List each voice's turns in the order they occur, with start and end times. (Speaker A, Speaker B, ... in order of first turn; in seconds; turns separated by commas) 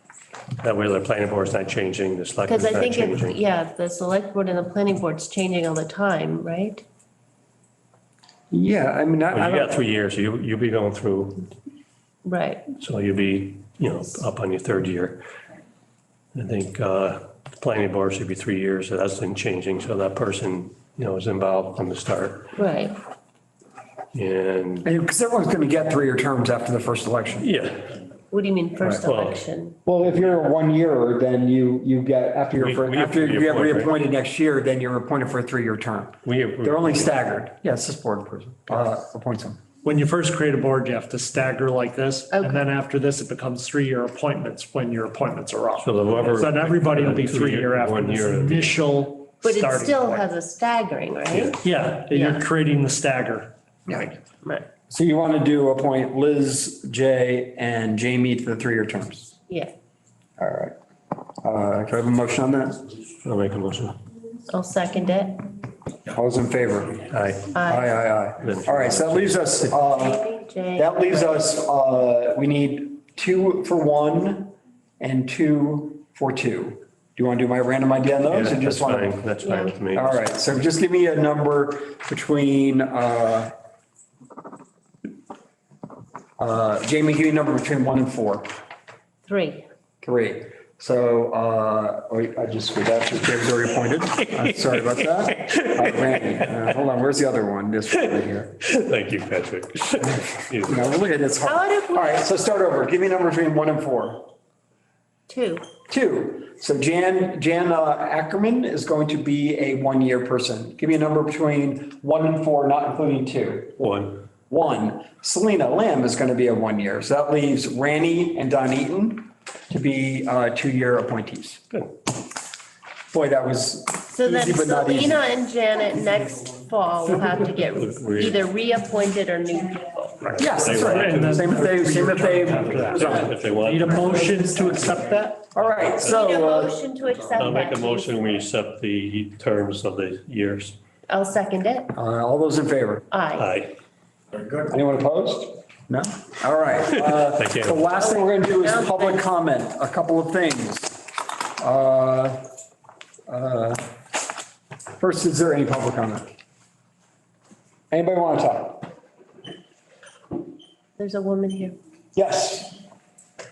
Speaker A: 0.6-3.4, Speaker B: 2.5-6.8, Speaker C: 8.5-9.8, Speaker A: 9.3-11.5, Speaker B: 12.2-12.7, Speaker A: 12.8-15.2, Speaker A: 16.3-22.5, Speaker B: 22.6-23.0, Speaker A: 24.1-24.9, Speaker C: 24.8-27.5, Speaker A: 27.4-28.0, Speaker B: 28.3-29.8, Speaker A: 29.0-29.4, Speaker C: 29.9-39.6, Speaker A: 32.5-33.9, Speaker A: 36.2-37.1, Speaker D: 39.8-50.3, Speaker B: 42.3-42.6, Speaker A: 45.8-48.8, Speaker B: 49.4-52.4, Speaker A: 51.3-51.6, Speaker D: 51.6-53.5, Speaker C: 53.9-54.1, Speaker C: 54.9-59.3, Speaker C: 60.4-60.8, Speaker C: 61.4-62.9, Speaker A: 63.2-64.0, Speaker B: 64.5-65.5, Speaker C: 66.1-67.0, Speaker A: 67.0-67.5, Speaker B: 67.5-67.9, Speaker C: 67.7-70.2, Speaker A: 68.4-69.5, Speaker B: 69.9-71.5, Speaker C: 70.8-79.2, Speaker A: 78.3-80.3, Speaker B: 79.4-79.8, Speaker C: 79.9-83.5, Speaker C: 86.4-88.5, Speaker B: 89.3-89.7, Speaker C: 90.0-98.6, Speaker A: 94.3-96.6, Speaker A: 98.6-100.9, Speaker C: 100.0-104.3, Speaker B: 101.5-102.2, Speaker B: 105.3-105.6, Speaker C: 105.9-113.8, Speaker A: 113.8-114.2, Speaker C: 114.5-121.6, Speaker C: 123.1-125.3, Speaker B: 124.1-130.3, Speaker A: 127.1-128.4, Speaker D: 130.2-135.5, Speaker A: 130.3-131.8, Speaker C: 130.4-133.4, Speaker A: 132.4-134.3, Speaker C: 135.5-136.8, Speaker A: 135.6-136.4, Speaker B: 136.0-138.4, Speaker A: 137.4-140.8, Speaker B: 141.1-141.9, Speaker C: 141.9-143.0, Speaker B: 143.1-143.5, Speaker A: 143.4-143.7, Speaker C: 144.5-151.1, Speaker A: 147.2-147.8, Speaker B: 148.0-149.2, Speaker C: 151.6-152.5, Speaker C: 153.3-153.9, Speaker C: 155.0-156.3, Speaker C: 157.9-158.9, Speaker B: 161.0-161.8, Speaker C: 162.2-162.8